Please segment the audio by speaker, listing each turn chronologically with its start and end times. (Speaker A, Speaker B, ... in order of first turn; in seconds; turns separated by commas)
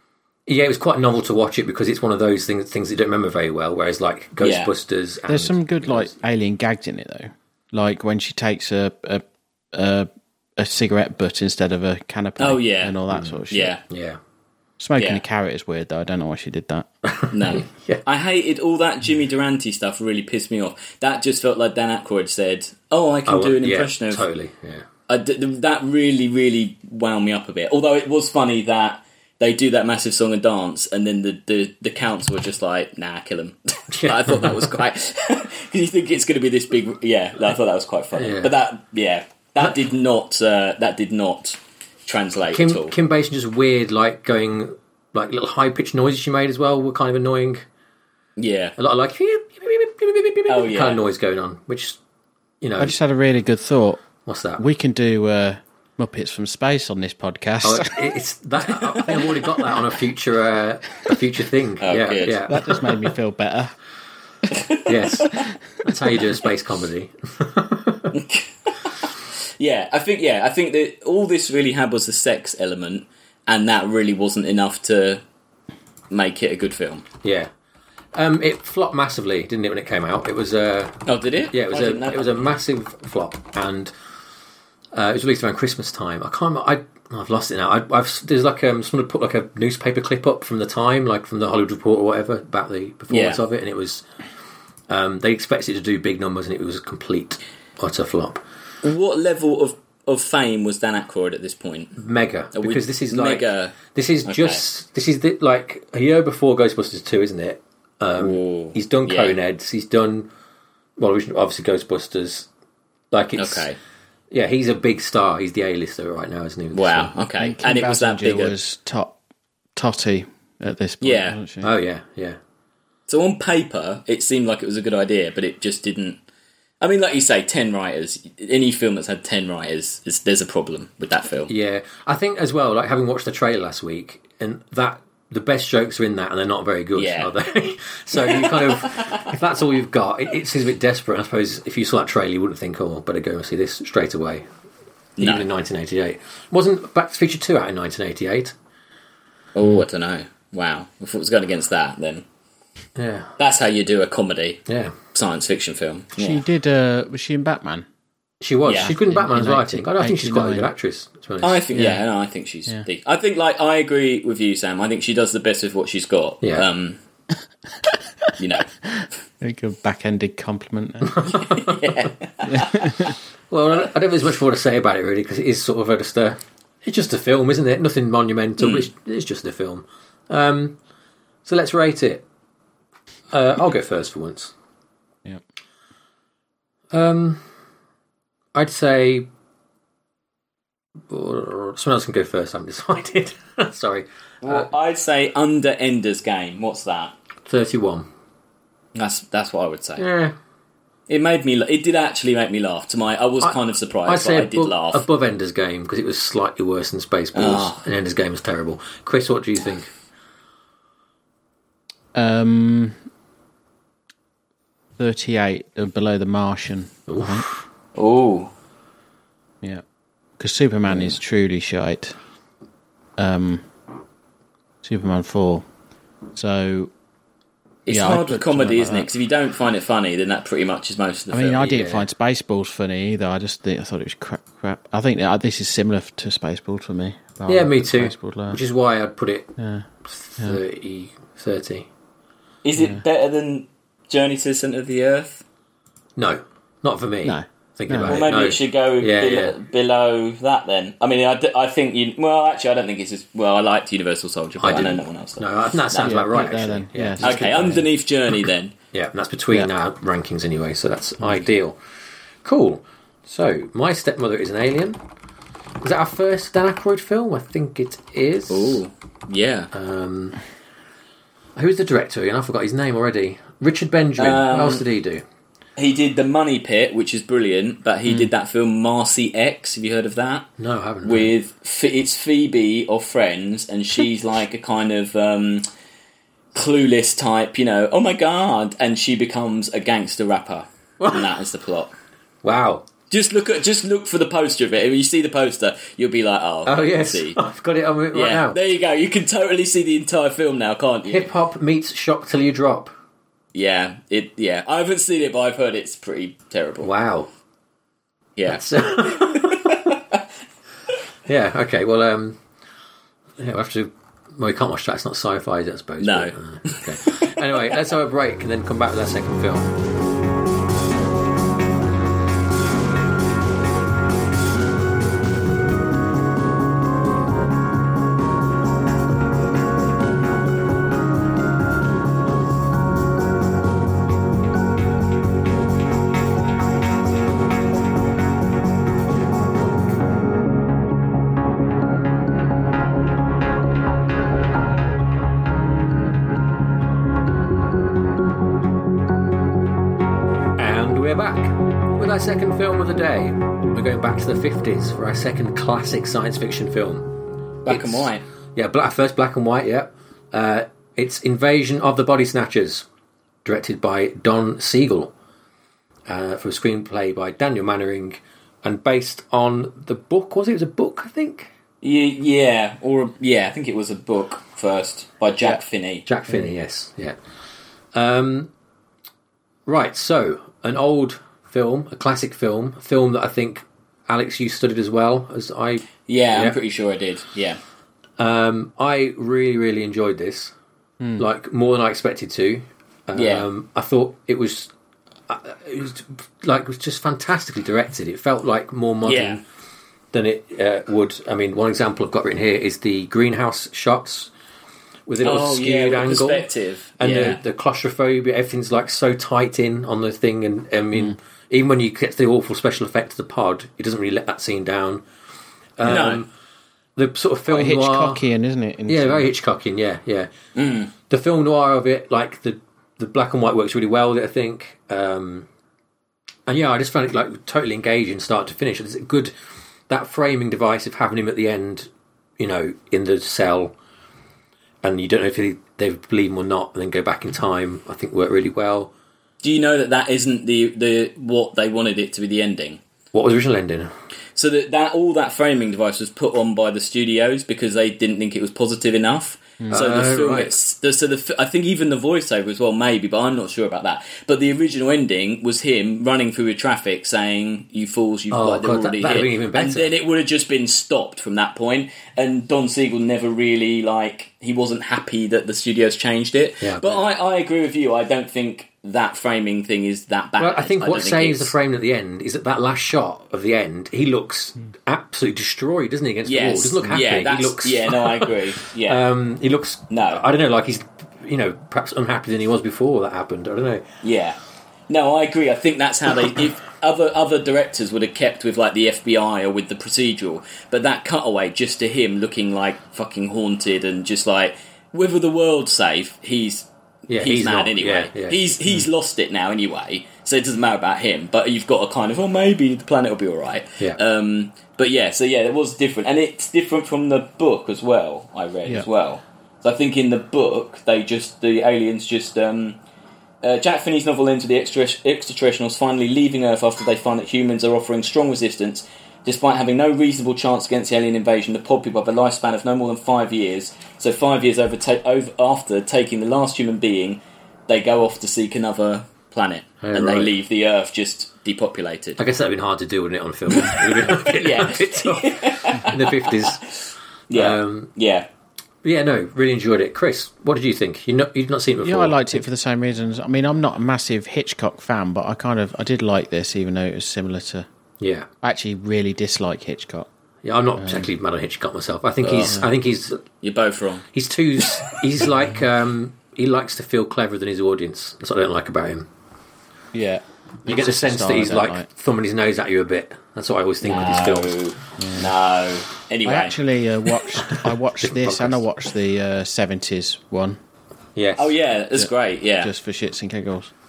Speaker A: 0.5-6.1, Speaker B: 4.4-4.7, Speaker C: 5.3-13.7, Speaker B: 12.4-13.8, Speaker A: 13.1-14.2, Speaker C: 14.8-16.9, Speaker A: 17.1-18.0, Speaker B: 17.3-24.2, Speaker A: 23.2-24.9, Speaker B: 25.1-42.9, Speaker A: 33.9-34.7, Speaker A: 38.1-38.5, Speaker A: 42.5-47.6, Speaker B: 48.4-48.8, Speaker A: 48.8-52.0, Speaker B: 50.5-51.0, Speaker A: 52.6-53.0, Speaker C: 52.8-54.0, Speaker A: 54.2-54.6, Speaker C: 54.6-58.1, Speaker A: 57.6-62.8, Speaker C: 58.8-59.5, Speaker B: 61.8-62.5, Speaker C: 62.5-63.7, Speaker B: 64.5-65.5, Speaker A: 64.8-68.2, Speaker B: 68.1-75.2, Speaker B: 76.1-77.0, Speaker A: 77.2-77.5, Speaker A: 78.1-81.0, Speaker B: 81.0-82.5, Speaker A: 81.5-83.9, Speaker A: 84.9-94.0, Speaker B: 93.1-93.4, Speaker A: 94.9-98.4, Speaker B: 98.8-101.9, Speaker A: 102.0-110.3, Speaker B: 102.5-104.6, Speaker B: 108.2-109.3, Speaker A: 111.0-112.5, Speaker A: 113.1-113.7, Speaker B: 113.4-113.8, Speaker A: 114.3-117.1, Speaker B: 116.7-118.5, Speaker C: 117.4-119.2, Speaker C: 119.7-121.7, Speaker B: 121.0-121.4, Speaker A: 121.6-122.4, Speaker B: 123.1-126.2, Speaker B: 126.8-131.5, Speaker A: 131.5-144.4, Speaker B: 136.9-137.3, Speaker B: 138.2-139.3, Speaker B: 145.2-145.5, Speaker A: 145.2-148.5, Speaker B: 149.5-152.2, Speaker A: 153.0-153.3, Speaker B: 153.4-156.4, Speaker A: 154.7-154.9, Speaker C: 156.2-157.9, Speaker A: 158.4-161.6, Speaker B: 158.7-158.9, Speaker C: 158.8-160.7, Speaker B: 161.4-167.0, Speaker C: 161.7-162.0, Speaker C: 167.8-168.3, Speaker B: 168.4-168.7, Speaker C: 168.9-171.4, Speaker A: 171.1-171.8, Speaker B: 171.3-172.9, Speaker C: 172.4-173.1, Speaker A: 173.5-180.8, Speaker B: 178.6-178.9, Speaker A: 181.4-182.2, Speaker A: 183.3-184.5, Speaker A: 186.9-187.4, Speaker A: 188.5-189.2, Speaker A: 191.1-194.7, Speaker B: 194.4-197.1, Speaker A: 197.4-198.1, Speaker B: 198.9-200.0, Speaker A: 200.0-200.3, Speaker B: 201.1-205.0, Speaker A: 203.4-209.9, Speaker B: 207.3-207.8, Speaker C: 212.1-213.0, Speaker C: 215.0-217.5, Speaker A: 217.1-217.6, Speaker B: 217.9-218.5, Speaker C: 220.4-222.2, Speaker C: 223.2-223.7, Speaker C: 224.8-225.7, Speaker C: 226.3-226.9, Speaker B: 227.8-231.8, Speaker C: 227.9-229.1, Speaker C: 231.3-238.6, Speaker A: 231.7-232.1, Speaker A: 237.5-239.5, Speaker C: 239.6-239.9, Speaker A: 240.1-241.9, Speaker B: 242.6-245.4, Speaker A: 246.2-249.6, Speaker C: 247.2-248.2, Speaker B: 248.1-256.6, Speaker A: 254.6-257.8, Speaker C: 256.0-257.8, Speaker B: 257.2-258.7, Speaker A: 258.9-261.8, Speaker A: 262.4-265.0, Speaker A: 265.8-268.8, Speaker B: 268.5-269.7, Speaker A: 269.7-270.4, Speaker A: 271.6-275.2, Speaker B: 274.2-274.8, Speaker B: 275.8-280.5, Speaker A: 280.6-281.3, Speaker B: 281.0-285.6, Speaker B: 286.5-291.9, Speaker A: 291.0-291.3, Speaker A: 292.4-292.9, Speaker B: 293.1-297.4, Speaker A: 296.6-298.6, Speaker B: 298.1-301.3, Speaker A: 301.1-302.9, Speaker B: 303.5-306.9, Speaker A: 306.8-307.3, Speaker B: 308.4-310.2, Speaker A: 308.5-309.8, Speaker A: 311.3-312.4, Speaker A: 313.4-319.8, Speaker B: 316.0-317.3, Speaker A: 350.6-357.1, Speaker B: 357.6-358.2, Speaker A: 357.6-362.9, Speaker A: 363.4-365.1, Speaker A: 366.1-371.5, Speaker B: 371.8-376.0, Speaker A: 376.1-377.1, Speaker A: 377.9-378.5, Speaker A: 379.6-386.6, Speaker B: 386.1-387.6, Speaker A: 388.2-390.5, Speaker A: 391.2-394.7, Speaker B: 393.1-393.5, Speaker A: 395.3-399.4, Speaker B: 399.0-399.4, Speaker A: 400.1-404.3, Speaker A: 405.1-406.5, Speaker B: 405.2-407.4, Speaker A: 407.0-415.0, Speaker A: 415.8-416.3, Speaker B: 415.8-416.2, Speaker A: 417.0-418.2, Speaker C: 417.5-419.3, Speaker A: 418.9-420.3, Speaker B: 420.6-420.9, Speaker A: 421.1-425.5, Speaker A: 426.5-429.3, Speaker A: 429.9-433.7, Speaker A: 434.8-438.9, Speaker B: 439.4-442.8, Speaker A: 443.1-443.9, Speaker B: 444.4-471.5, Speaker A: 449.7-450.5, Speaker A: 458.3-459.9, Speaker A: 466.6-467.0, Speaker A: 470.4-483.9, Speaker B: 476.2-479.0, Speaker B: 479.9-480.2, Speaker B: 484.0-484.4, Speaker B: 484.9-512.8, Speaker A: 497.1-498.4, Speaker B: 513.4-532.2, Speaker A: 529.8-530.3, Speaker A: 532.2-536.7, Speaker B: 533.5-538.3, Speaker A: 537.3-537.9, Speaker A: 538.8-542.4, Speaker C: 541.8-547.7, Speaker A: 548.0-548.3, Speaker C: 548.4-550.1, Speaker A: 550.4-553.2, Speaker C: 550.8-551.1, Speaker B: 553.4-554.1, Speaker A: 554.1-559.1, Speaker C: 559.9-561.9, Speaker A: 560.6-564.6, Speaker B: 563.8-566.6, Speaker C: 565.0-565.3, Speaker C: 566.2-570.6, Speaker A: 567.4-568.6, Speaker A: 571.1-571.5, Speaker B: 571.4-572.7, Speaker C: 572.6-573.7